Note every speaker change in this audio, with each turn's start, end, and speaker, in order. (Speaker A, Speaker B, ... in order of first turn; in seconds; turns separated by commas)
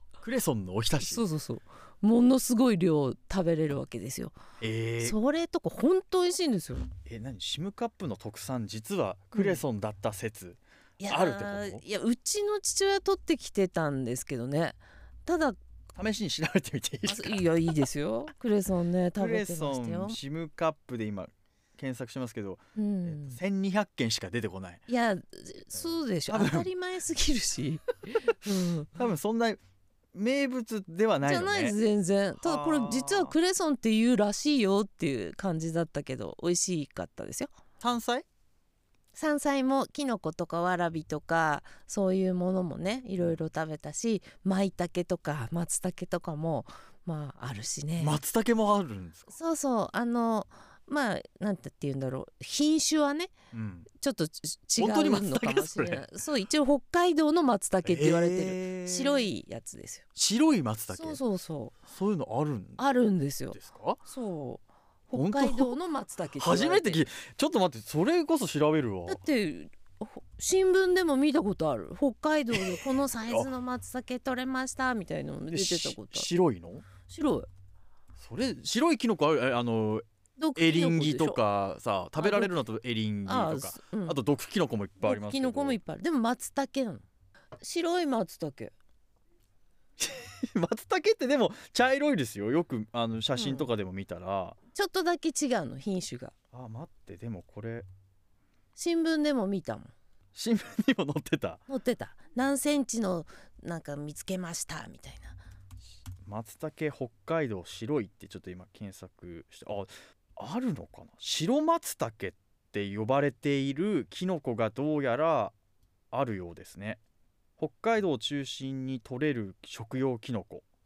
Speaker A: 0.2-1.2, Speaker B: 1.0-4.4, Speaker A: 4.6-5.2, Speaker B: 5.0-6.9, Speaker A: 7.0-11.8, Speaker B: 9.3-9.6, Speaker B: 11.0-15.6, Speaker A: 15.9-17.4, Speaker B: 17.0-20.2, Speaker A: 19.2-24.8, Speaker B: 22.8-23.4, Speaker B: 24.9-29.0, Speaker A: 25.8-26.7, Speaker A: 28.9-29.6, Speaker A: 30.1-31.8, Speaker B: 31.2-37.5, Speaker A: 32.4-33.3, Speaker A: 37.8-38.2, Speaker B: 39.1-48.2, Speaker A: 48.0-49.3, Speaker B: 49.3-53.3, Speaker A: 53.5-53.9, Speaker B: 53.9-60.0, Speaker A: 54.8-56.0, Speaker A: 57.8-59.3, Speaker A: 60.1-61.2, Speaker B: 60.9-61.7, Speaker A: 61.8-62.8, Speaker B: 62.8-67.0, Speaker A: 63.5-64.0, Speaker A: 65.1-65.7, Speaker A: 66.4-69.2, Speaker B: 69.1-76.3, Speaker A: 72.5-73.5, Speaker A: 75.5-76.8, Speaker B: 77.1-77.5, Speaker A: 78.2-80.0, Speaker B: 80.4-81.4, Speaker A: 80.5-85.8, Speaker B: 82.2-82.5, Speaker B: 83.2-84.2, Speaker B: 85.0-87.0, Speaker B: 87.6-88.7, Speaker A: 90.0-94.6, Speaker B: 93.3-93.7, Speaker B: 94.7-96.3, Speaker A: 96.5-97.9, Speaker B: 98.8-99.9, Speaker A: 100.3-101.6, Speaker B: 101.7-105.4, Speaker A: 106.2-115.5, Speaker A: 116.1-117.0, Speaker A: 117.6-120.6